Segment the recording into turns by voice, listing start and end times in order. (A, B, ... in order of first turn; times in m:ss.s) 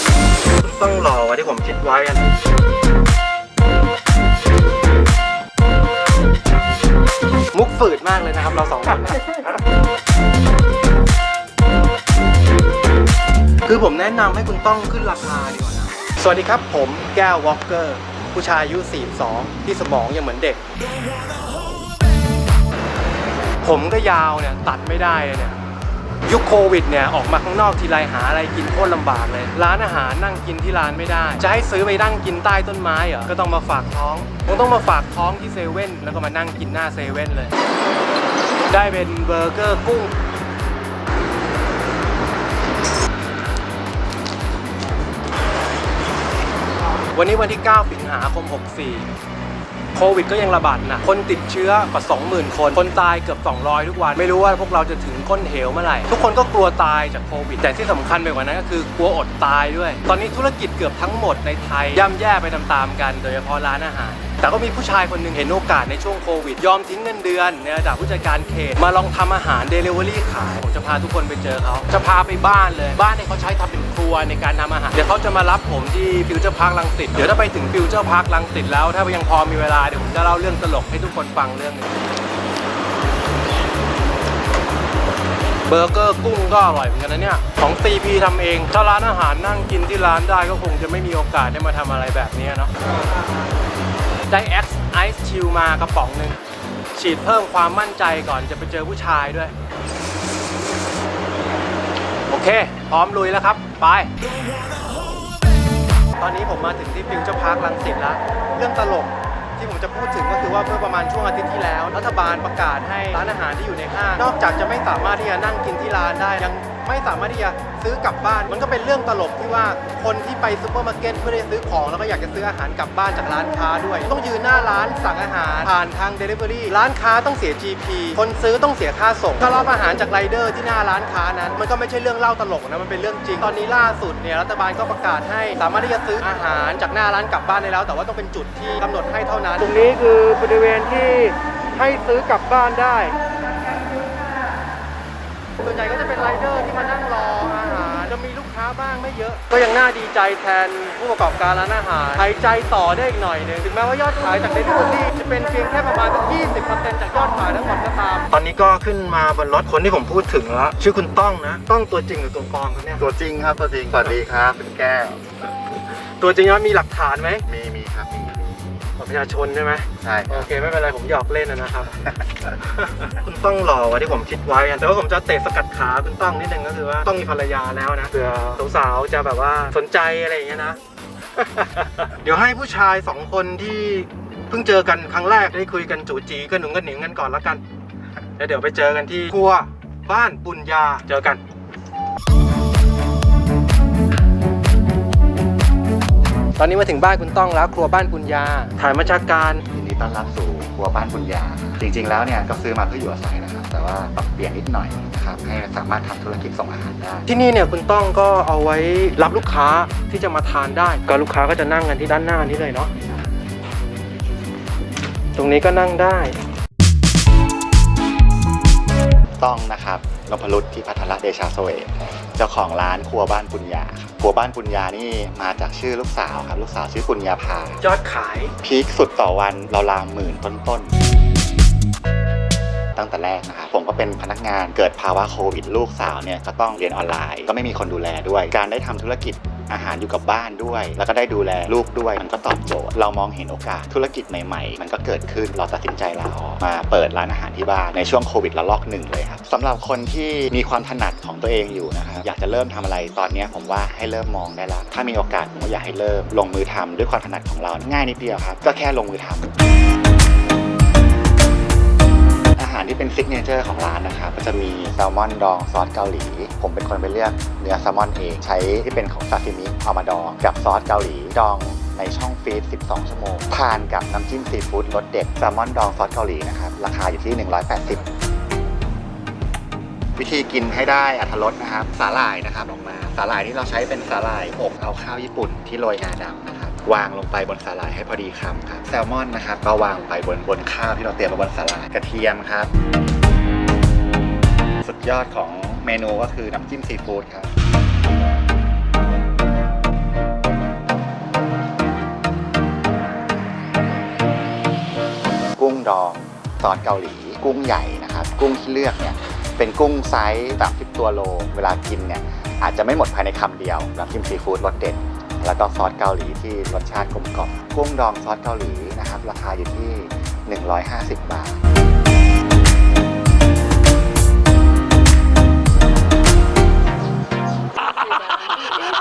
0:00.5-0:02.3 A
0:07.5-0:09.2 A
0:13.6-0:20.6 A
0:23.6-0:25.6 A
0:26.2-0:37.5 A
0:38.7-0:40.1 A
0:47.1-0:49.1 A
0:49.9-1:21.9 A
1:25.7-1:32.7 A
1:34.3-1:36.4 A
1:36.9-1:39.5 A
1:42.3-1:44.1 A
1:46.2-2:23.2 A
2:25.6-2:43.0 A
2:43.0-2:45.2 B
2:46.2-2:47.4 A
2:47.4-2:48.8 B
2:49.0-2:51.9 A
2:50.0-2:50.5 B
2:51.9-2:52.3 B
2:52.8-3:00.8 A
3:01.4-3:07.6 A
3:08.4-3:11.4 A
3:16.6-3:19.6 A
3:19.7-3:27.3 B
3:27.3-3:32.9 A
3:35.4-3:36.4 A
3:39.4-3:47.8 B
3:47.8-3:48.5 A
3:48.6-3:50.9 B
3:52.9-4:19.5 B
4:22.6-4:38.0 B
4:40.2-4:52.7 B
4:54.8-4:57.5 B
5:05.6-5:21.6 B